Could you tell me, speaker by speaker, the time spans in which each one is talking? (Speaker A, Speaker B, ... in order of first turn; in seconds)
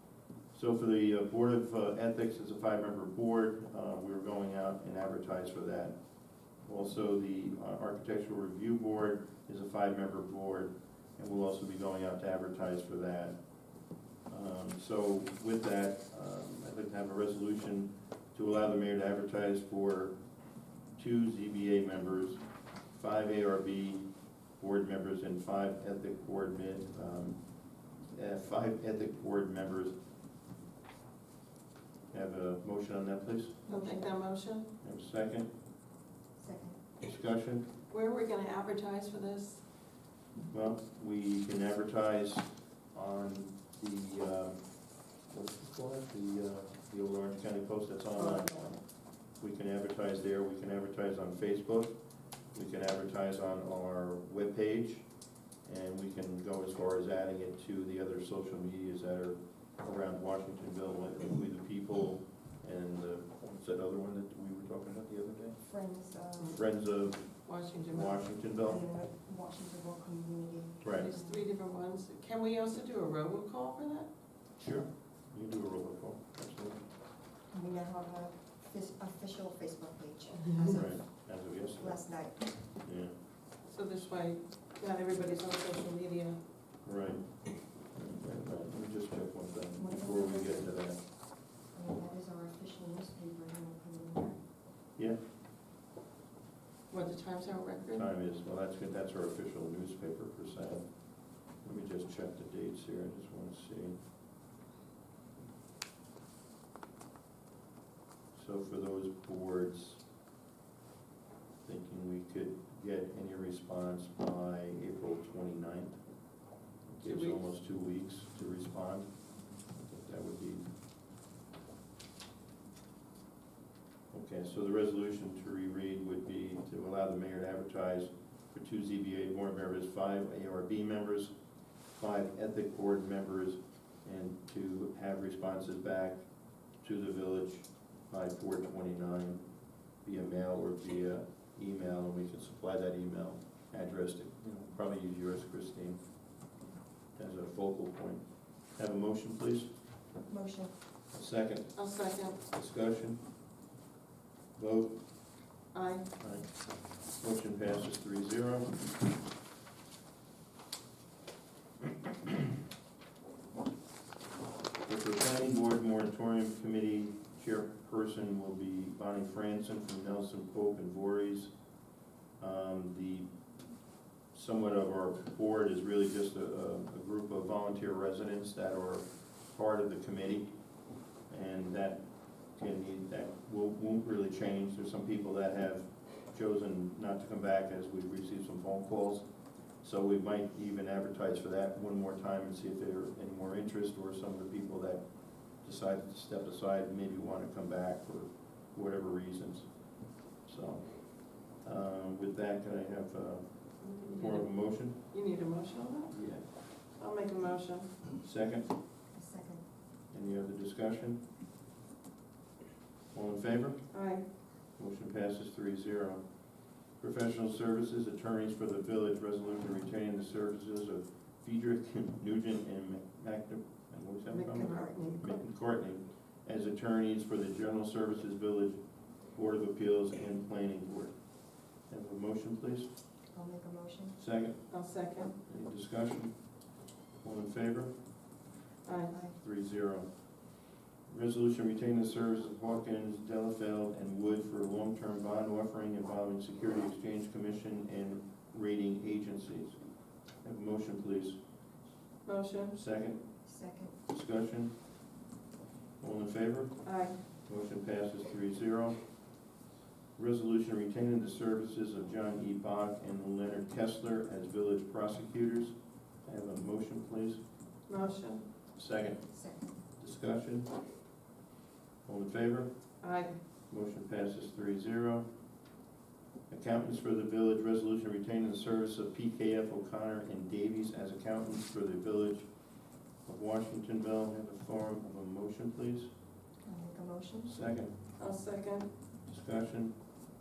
Speaker A: 0.5-6.0, 6.6-13.4, 14.3-20.2, 20.9-24.1, 24.6-27.4, 28.0-29.9, 32.1-33.6, 34.8-35.5, 37.0-37.7, 40.5-44.6, 45.2-52.0, 52.5-55.1, 55.6-65.6, 66.5-68.8, 70.8-71.1, 74.6-76.9, 80.7-82.0, 82.8-83.1, 86.8-87.3, 87.8-91.0, 97.9-104.0, 108.3-110.0, 111.6-116.0, 116.9-119.1, 119.7-120.7, 124.1-131.3, 131.9-136.2, 136.8-139.4, 140.0-146.0, 147.2-149.7, 151.1-153.2, 154.6-155.0, 156.2-158.8, 164.8-171.5, 172.4-173.3, 174.3-180.5, 181.3-189.3, 189.8-205.0, 206.1-206.5, 208.2-208.7, 210.1-211.2, 213.1-213.9, 214.7-216.2, 216.8-231.2, 231.8-232.9, 234.2-234.7, 235.4-236.3, 237.2-237.9, 239.3-240.1, 241.1-249.8, 250.4-251.4, 252.7-253.2, 254.1-254.7, 256.0-256.8, 257.4-259.0, 260.1-267.4, 268.8-269.2, 270.0-270.7, 272.0-272.7, 273.7-275.2, 276.5-282.5, 283.2-286.1, 287.4-287.9, 289.3-289.9
Speaker B: 33.7-34.1, 36.4-36.8, 65.7-66.6, 68.6-71.5, 77.5-81.2, 81.8-82.7, 89.8-94.4, 150.3-150.7, 209.1-209.6, 224.4-225.3, 233.3-234.2, 239.1-239.4, 253.4-253.9, 269.3-269.7, 286.6-287.5
Speaker C: 33.7-34.7, 37.9-39.6, 48.2-48.5, 67.4-68.3, 70.9-74.1, 83.7-86.4, 96.9-98.1, 117.0-117.4, 151.8-152.4, 155.7-156.1, 203.8-208.0, 213.9-214.2, 224.3-225.2, 234.7-235.3, 238.8-239.1, 252.2-252.8, 256.8-257.2, 267.9-268.4, 273.0-273.4, 288.2-288.9